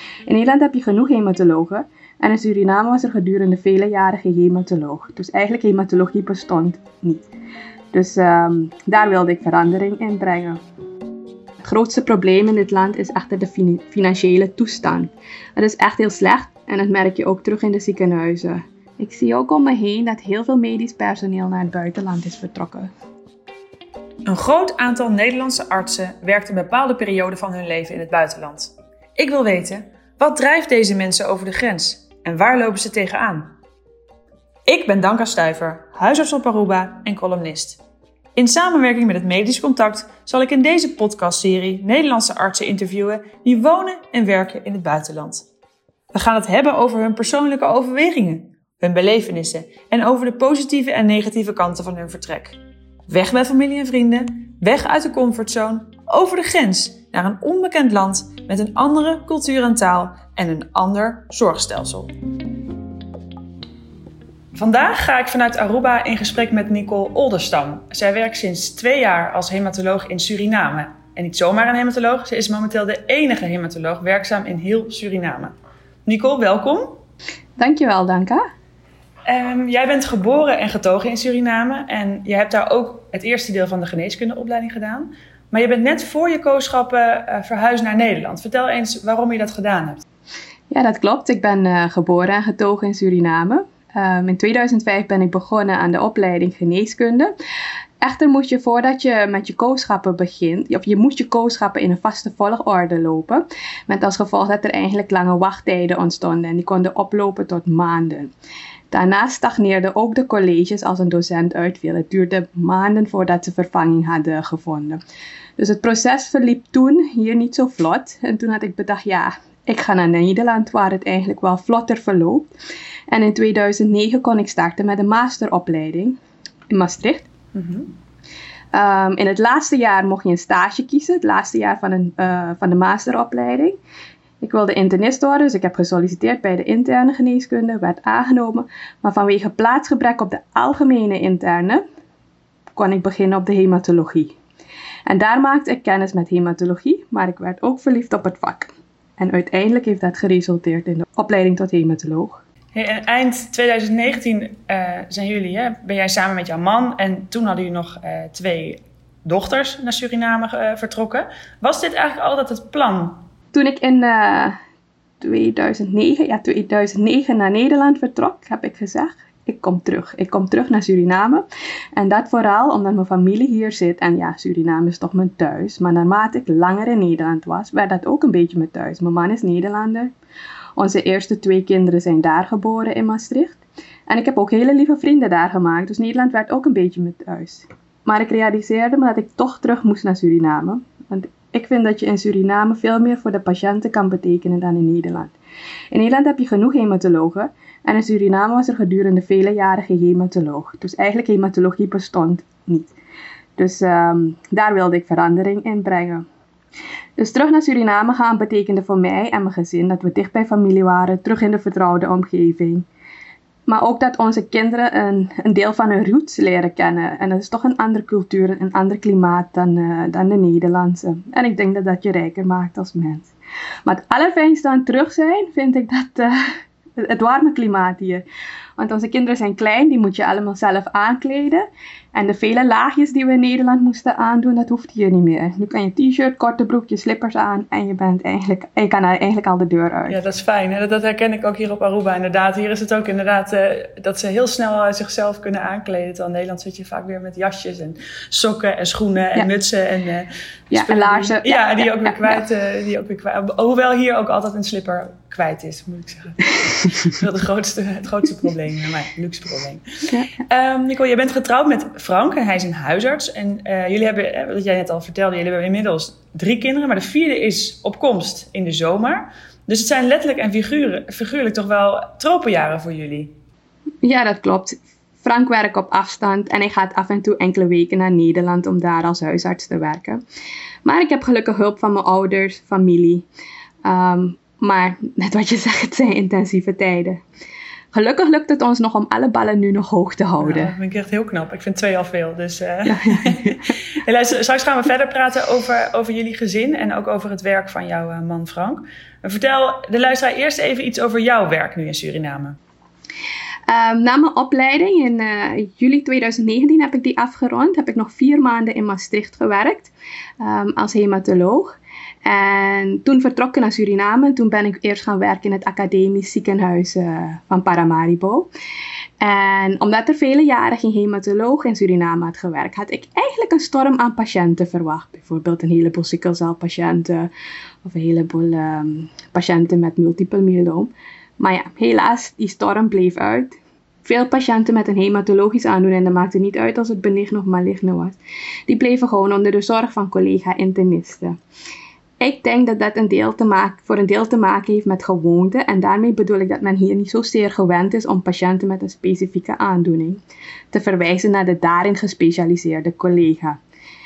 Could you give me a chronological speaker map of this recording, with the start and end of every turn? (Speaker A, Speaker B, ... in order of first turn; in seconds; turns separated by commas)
Speaker A: 0.3-7.2, Speaker A: 7.9-10.6, Speaker A: 11.6-22.9, Speaker B: 24.2-33.5, Speaker B: 34.6-37.8, Speaker B: 38.4-45.5, Speaker B: 46.1-62.1, Speaker B: 64.5-75.5, Speaker B: 76.0-77.0, Speaker A: 77.6-78.4, Speaker B: 79.3-90.0, Speaker A: 90.7-97.3, Speaker A: 98.0-108.3, Speaker A: 108.9-115.0, Speaker A: 115.6-122.5, Speaker A: 123.1-126.2, Speaker A: 126.7-127.3, Speaker B: 127.5-127.9, Speaker A: 128.7-133.8, Speaker A: 134.4-141.8, Speaker A: 142.8-144.3, Speaker A: 145.1-152.4, Speaker B: 152.7-163.2, Speaker A: 163.5-164.6, Speaker A: 165.2-171.4, Speaker A: 171.9-180.1, Speaker A: 180.8-195.3, Speaker A: 195.9-202.9, Speaker A: 203.6-206.2, Speaker A: 207.2-212.8, Speaker A: 213.7-223.3, Speaker A: 223.8-228.2, Speaker A: 228.8-240.2, Speaker B: 240.1-273.3, Speaker A: 250.7-252.4, Speaker A: 274.0-280.2, Speaker A: 280.8-283.2, Speaker A: 283.8-287.2, Speaker A: 287.9-290.7, Speaker B: 290.4-302.6, Speaker A: 292.9-293.6, Speaker A: 303.7-311.7, Speaker A: 312.2-318.5, Speaker A: 319.2-327.3, Speaker A: 327.8-338.1, Speaker A: 338.7-341.4, Speaker A: 342.2-353.6